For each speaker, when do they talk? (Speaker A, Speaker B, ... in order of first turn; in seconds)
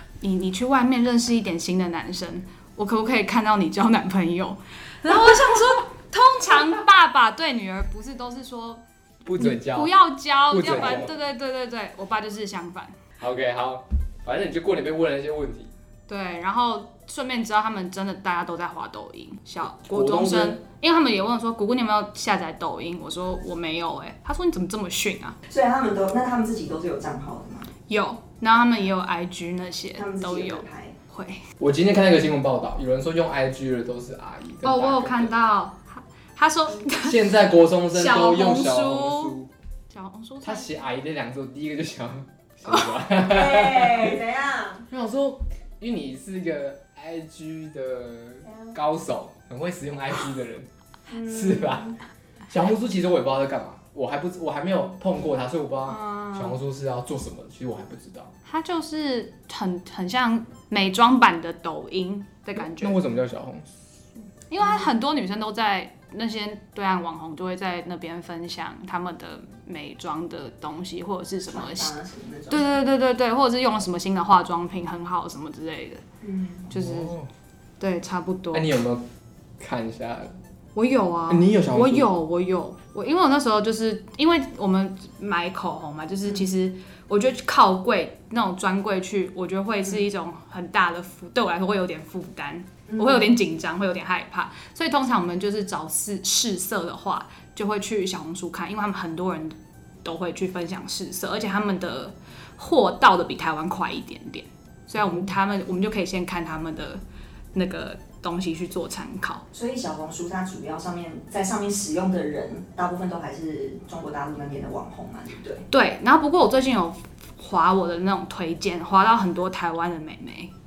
Speaker A: 0.2-8.8, 9.3-12.9, 16.1-25.4, 27.9-31.4, 34.6-37.2, 37.9-39.3, 39.9-40.8, 55.9-56.6, 58.4-63.0, 64.5-71.9, 72.5-76.0, 76.7-77.1, 77.8-78.7, 80.7-107.0, 107.5-109.4, 115.7-120.5
Speaker B: 9.2-9.9, 10.5-11.1, 13.2-15.7, 19.6-20.6, 31.6-35.3, 37.0-39.5, 40.4-44.1, 44.9-51.9, 52.5-58.3, 62.5-63.7, 76.7-77.3, 78.5-79.0, 79.6-80.4, 81.3-82.1
Speaker C: 25.5-27.7, 29.9-30.9, 43.1-44.9, 48.4-48.8, 51.1-52.0, 64.6-64.9, 71.5-72.8, 76.2-76.7, 92.9-93.3, 109.5-115.6